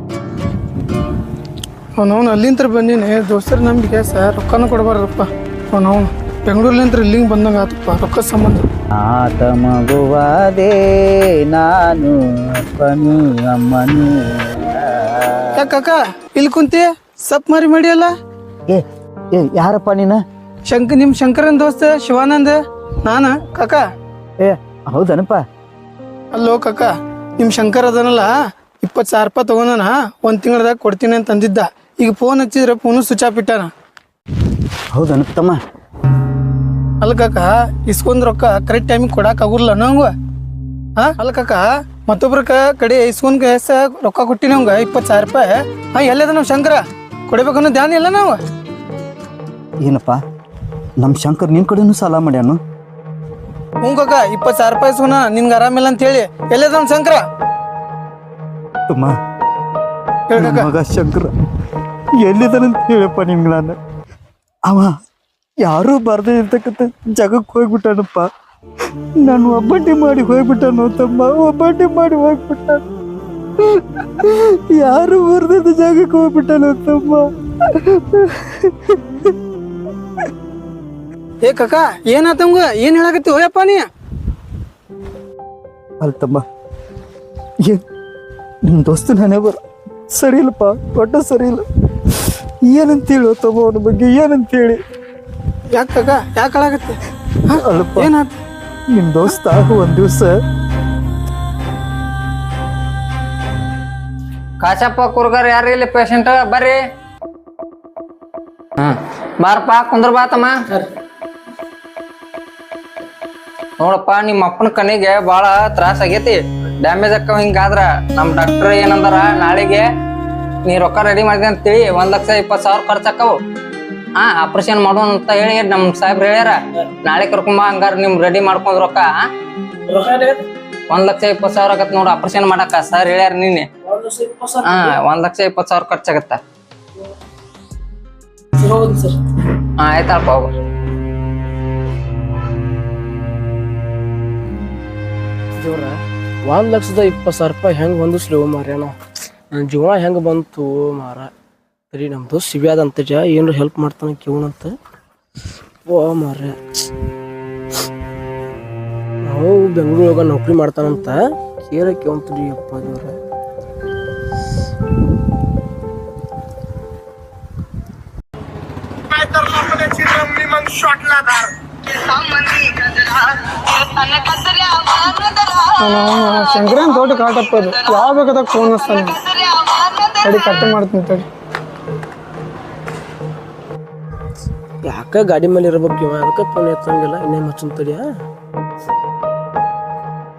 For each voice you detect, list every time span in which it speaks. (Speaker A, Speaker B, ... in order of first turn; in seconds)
Speaker A: 2.0-8.7, 15.6-18.1, 20.7-23.8, 26.3-33.7, 37.0-40.1, 41.0-48.4, 53.8-57.2, 60.3-60.7, 81.4-83.9, 95.7-98.4, 175.8-179.2, 180.2-181.3
Speaker B: 8.9-15.6, 18.7-20.2, 24.4-25.4, 34.9-35.6, 49.8-50.2, 51.0-52.6, 58.9-59.1, 60.4-61.3, 62.2-63.8, 64.7-65.0, 65.6-68.3, 69.2-72.8, 73.6-79.3, 86.0-86.4, 88.7-89.6, 90.1-94.8, 97.5-98.1, 98.9-100.3
Speaker C: 104.6-106.8, 108.8-110.8, 113.8-119.9, 120.7-123.4, 124.2-129.2, 130.9-133.7, 134.6-136.4, 139.8-140.5
Speaker D: 129.9-130.4, 133.8-134.9, 138.6-139.2, 145.6-149.0, 149.5-151.3, 151.9-154.8, 155.9-156.6, 159.2-163.2, 184.8-188.1